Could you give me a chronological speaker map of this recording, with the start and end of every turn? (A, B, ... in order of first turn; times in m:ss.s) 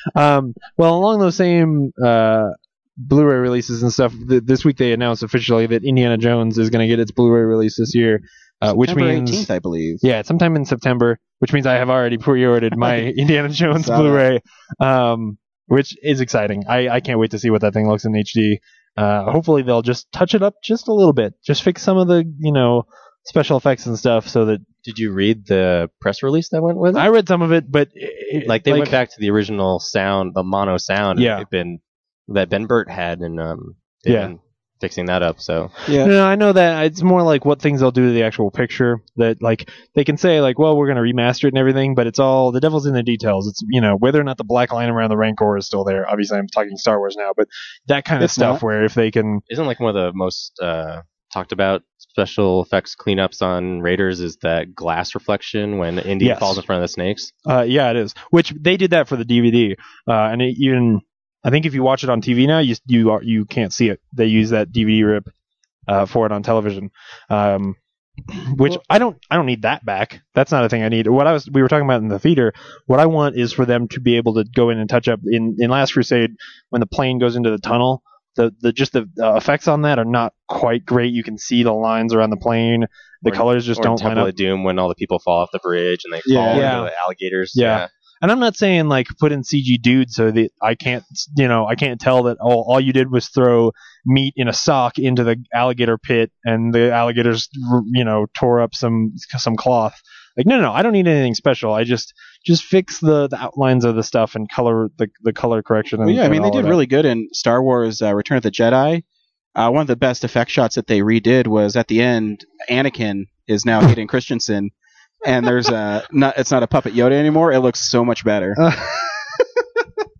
0:00.2-0:09.5 A
0:08.7-0:10.0 B
0:10.0-0:24.6 A
0:13.8-0:14.2 B
0:24.8-0:27.1 C
0:26.9-0:29.0 A
0:28.5-0:35.8 C
0:31.2-0:31.5 A
0:34.1-0:34.3 A
0:35.9-0:36.1 B
0:36.0-0:49.4 A
0:48.2-0:48.6 B
0:49.5-0:57.3 C
0:56.2-0:56.6 A
0:57.4-1:05.3 A
1:05.9-1:07.8 A
1:08.4-1:24.3 A
1:23.3-1:27.9 C
1:26.3-1:26.8 B
1:26.5-1:26.9 A
1:27.5-1:46.8 A
1:46.0-1:49.0 B
1:49.6-1:54.7 B
1:55.2-1:58.6 B
1:58.6-1:59.4 A